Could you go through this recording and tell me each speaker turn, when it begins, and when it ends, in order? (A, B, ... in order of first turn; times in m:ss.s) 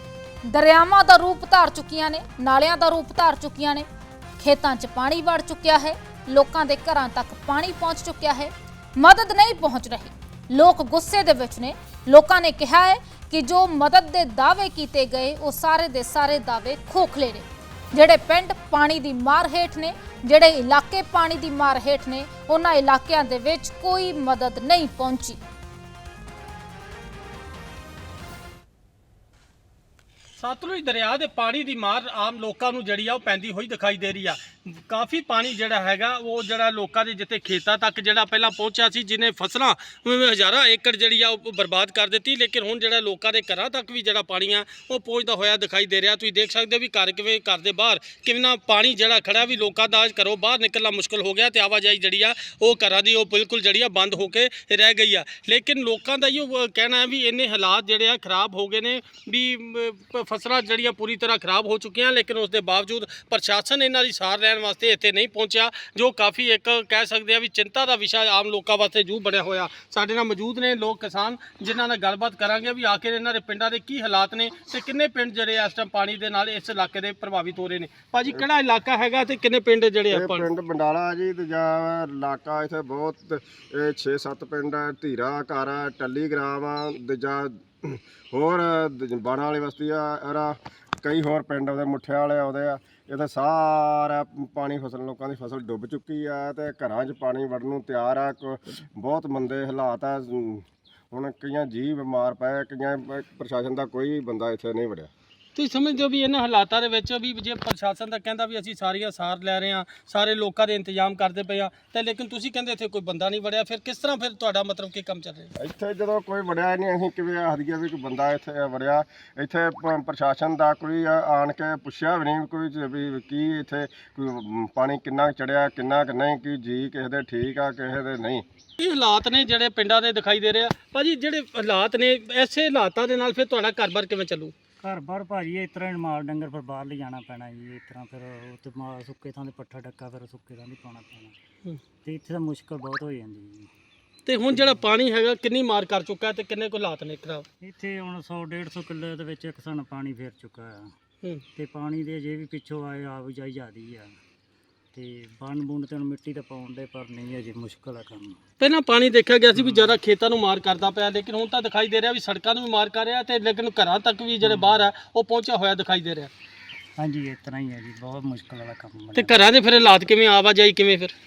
0:00.5-0:03.9 A
0:04.4-0:25.4 A
0:30.4-1:20.5 B
1:20.1-1:45.1 C
1:45.6-1:55.5 B
1:55.6-2:08.4 C
2:08.8-2:14.5 B
2:14.8-2:21.4 D
2:22.0-2:23.7 D
2:24.3-2:27.5 B
2:24.5-2:24.8 D
2:27.6-2:30.9 D
2:31.5-2:34.1 D
2:34.9-2:38.4 D
2:38.6-2:46.3 B
2:39.6-2:40.0 D
2:44.4-2:44.8 D
2:47.0-2:49.4 D
2:49.2-2:51.1 B